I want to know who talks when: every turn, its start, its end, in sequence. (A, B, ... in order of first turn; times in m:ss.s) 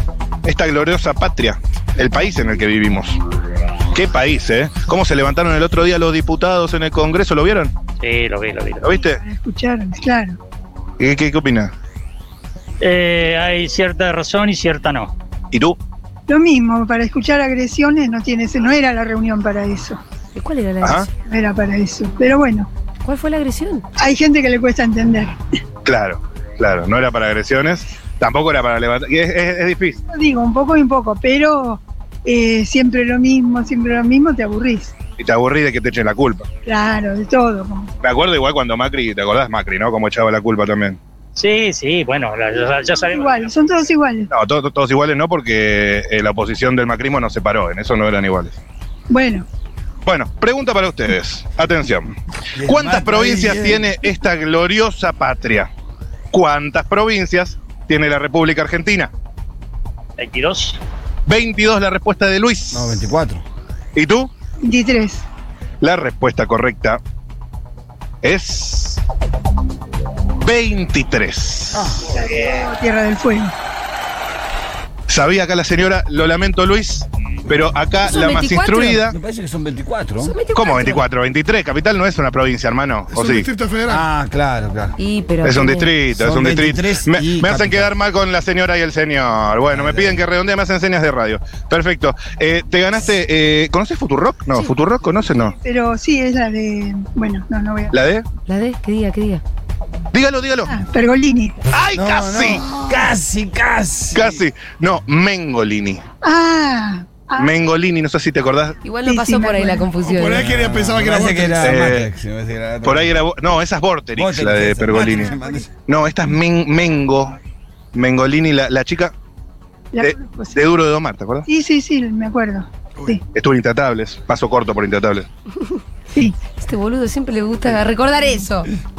0:00.4-0:03.2 A
0:03.9-0:07.7 A
0:08.0-0:08.9 B
0:08.8-0:09.2 A
0:08.9-0:10.4 C
0:11.0-0:11.7 A
0:12.8-0:15.1 B
0:15.5-0:15.8 A
0:16.3-0:20.0 C
0:20.4-0:21.1 D
0:20.8-0:21.1 A
0:21.3-0:22.7 C
0:23.0-0:23.8 D
0:24.0-0:25.4 C
0:25.8-0:30.0 A
0:30.1-0:34.9 C
0:35.2-0:36.5 A
0:36.7-0:37.9 C
0:38.0-0:41.0 A
0:41.4-0:43.5 B
0:43.1-0:44.3 C
0:44.3-0:48.6 A
0:49.1-0:49.5 C
0:50.0-0:52.1 A
0:52.6-0:53.9 E
0:52.6-0:55.7 A
0:56.3-0:59.1 A
1:00.2-1:00.8 B
1:01.3-1:03.0 A
1:02.7-1:03.4 E
1:04.0-1:04.3 A
1:04.6-1:05.2 C
1:05.8-1:07.0 A
1:08.2-1:09.0 A
1:10.4-1:12.0 A
1:11.7-1:12.1 E
1:12.0-1:13.5 C
1:15.1-1:19.2 A
1:18.1-1:19.1 D
1:19.1-1:20.4 E
1:20.2-1:21.0 D
1:20.6-1:23.5 A
1:23.1-1:24.0 F
1:23.9-1:25.0 E
1:25.0-1:25.9 D
1:25.4-1:35.6 A
1:26.1-1:27.9 E
1:29.7-1:30.2 E
1:35.6-1:38.0 C
1:37.9-1:38.2 A
1:38.5-1:39.4 D
1:40.1-1:40.8 A
1:40.7-1:41.6 C
1:41.7-1:42.7 A
1:41.9-1:44.4 E
1:44.1-1:46.0 A
1:46.2-1:47.6 C
1:47.4-1:48.8 A
1:48.8-1:50.4 D
1:49.0-1:49.9 C
1:50.0-1:51.8 F
1:50.4-1:53.2 E
1:51.6-1:52.1 A
1:52.8-1:55.3 A
1:54.2-1:55.7 E
1:55.9-1:57.4 A
1:57.9-1:59.1 A
1:59.9-2:00.6 C
2:00.0-2:01.5 A
2:01.5-2:03.2 C
2:03.3-2:05.3 A
2:06.6-2:08.7 D